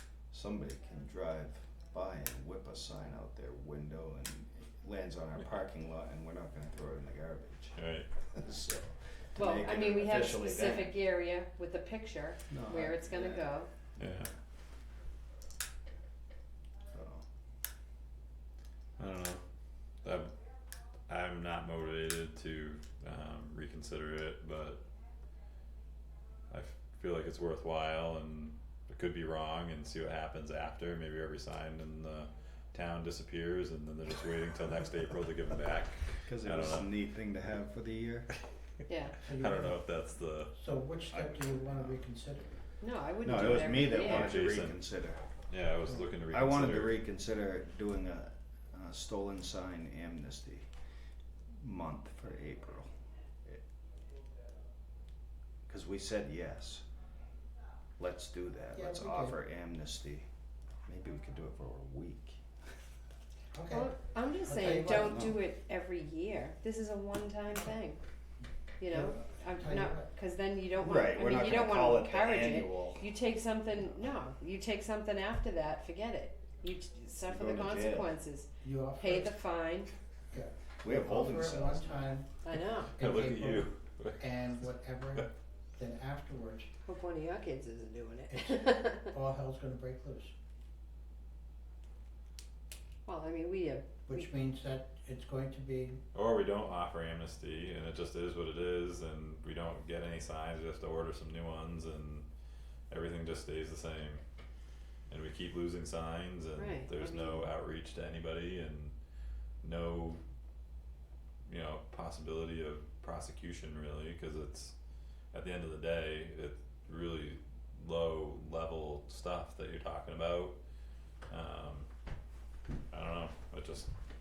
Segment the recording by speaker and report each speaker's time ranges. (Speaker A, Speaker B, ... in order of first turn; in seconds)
Speaker A: 0.3-10.9, 12.5-13.5, 16.9-17.2, 36.2-38.3, 41.1-42.0, 43.2-45.3, 46.3-50.7, 51.5-52.9, 55.7-56.8, 58.0-60.3, 60.8-62.4, 65.0-65.4, 70.8-73.0, 77.2-78.1, 80.8-82.2
Speaker B: 7.8-8.1, 14.0-14.3, 19.0-19.4, 20.0-20.3, 21.1-24.8, 26.5-36.9, 39.3-40.5, 43.3-44.8, 45.5-47.0, 82.9-84.3, 96.1-102.2, 102.9-104.2, 105.1-108.9, 109.6-110.2, 111.5-114.7, 115.3-120.6, 121.3-121.9, 122.9-123.9
Speaker C: 9.3-13.7, 38.9-39.1, 42.8-44.4, 63.7-68.0, 68.8-79.9, 82.4-82.9, 86.8-89.1, 93.0-94.3, 106.6-107.5
Speaker D: 39.2-39.8, 40.5-42.6, 58.7-59.4, 63.5-63.9, 64.4-65.2, 68.9-70.1, 78.6-79.4, 80.3-86.7, 88.3-90.3, 94.1-96.0